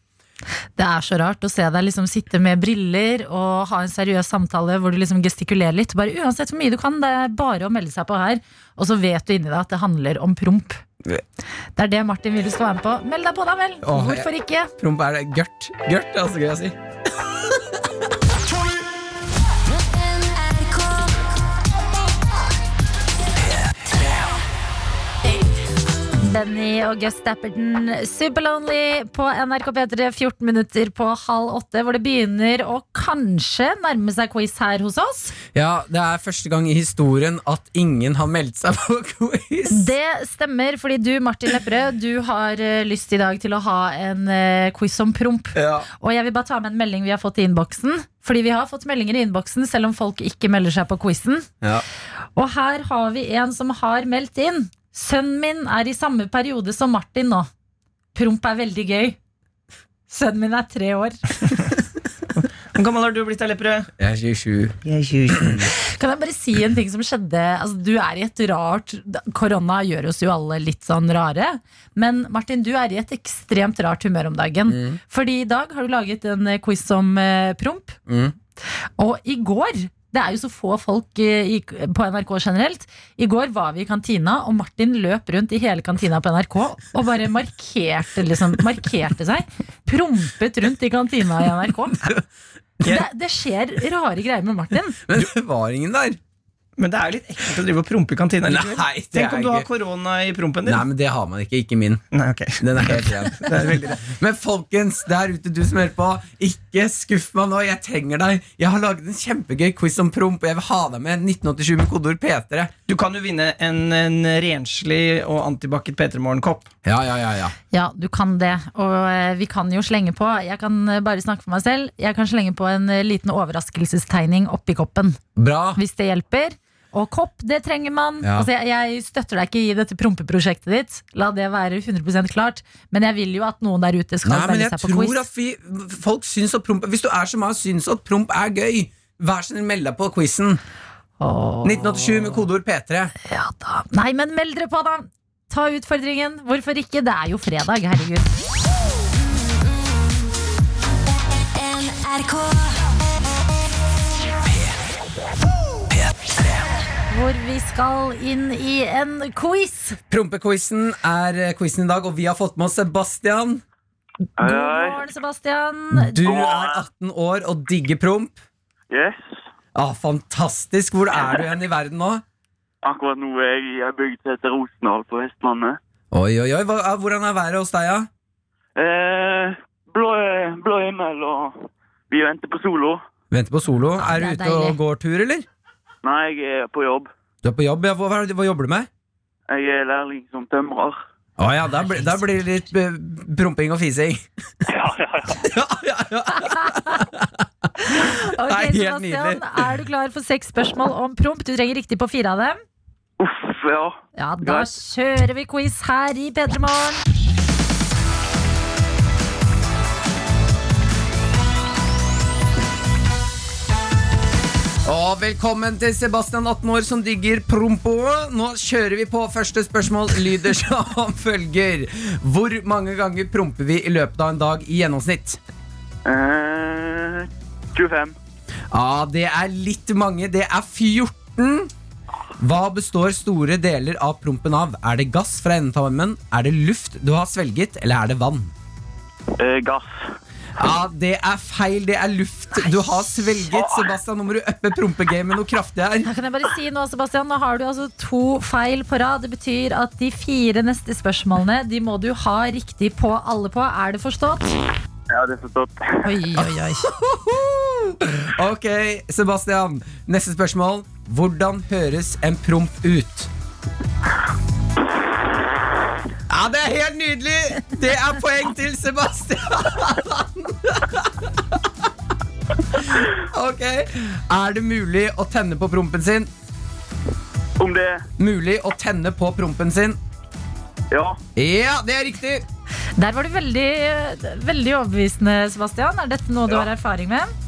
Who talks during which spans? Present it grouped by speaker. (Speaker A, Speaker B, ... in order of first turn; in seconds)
Speaker A: 0.8-10.8, 11.8-14.7, 26.2-35.4, 39.7-51.5, 52.4-57.5, 58.1-59.2, 60.1-61.3, 65.7-78.0, 79.0-92.0, 92.8-95.0, 117.7-125.2, 125.8-135.2, 141.2-142.4, 143.2-148.3, 157.1-160.0, 164.4-166.2, 184.0-184.8, 196.4-196.9, 197.8-202.6, 204.2-207.0, 246.0-254.6, 256.0-256.9, 283.0-287.3
Speaker B: 13.8-17.8, 35.5-39.9, 45.5-45.9, 64.0-64.8, 65.3-65.7, 74.7-75.0, 78.1-78.3, 95.0-96.2, 98.5-99.7, 100.7-102.0, 102.6-112.7, 116.8-117.5, 125.4-125.8, 128.2-128.5, 134.2-140.6, 141.6-143.1, 160.1-163.6, 165.9-168.4, 169.8-172.2, 176.1-178.1, 183.3-185.5, 187.4-188.9, 191.4-194.3, 195.4-199.7, 214.8-225.4, 228.7-231.7, 232.4-238.5, 240.6-246.1, 256.4-263.3, 266.3-271.7, 272.7-276.3, 278.2-280.0, 281.4-282.4
Speaker C: 20.1-21.1, 151.6-152.9
Speaker D: 62.7-63.9, 64.8-65.7, 96.8-100.8, 102.1-104.1, 112.9-116.7
Speaker E: 164.4-165.1, 166.2-166.8, 168.9-169.4, 172.8-175.8, 178.8-183.0, 186.0-187.1, 189.5-191.0, 194.7-195.5, 203.2-204.7, 226.1-228.2, 239.4-239.9, 243.5-243.9, 255.1-256.1, 277.6-278.0, 280.9-281.2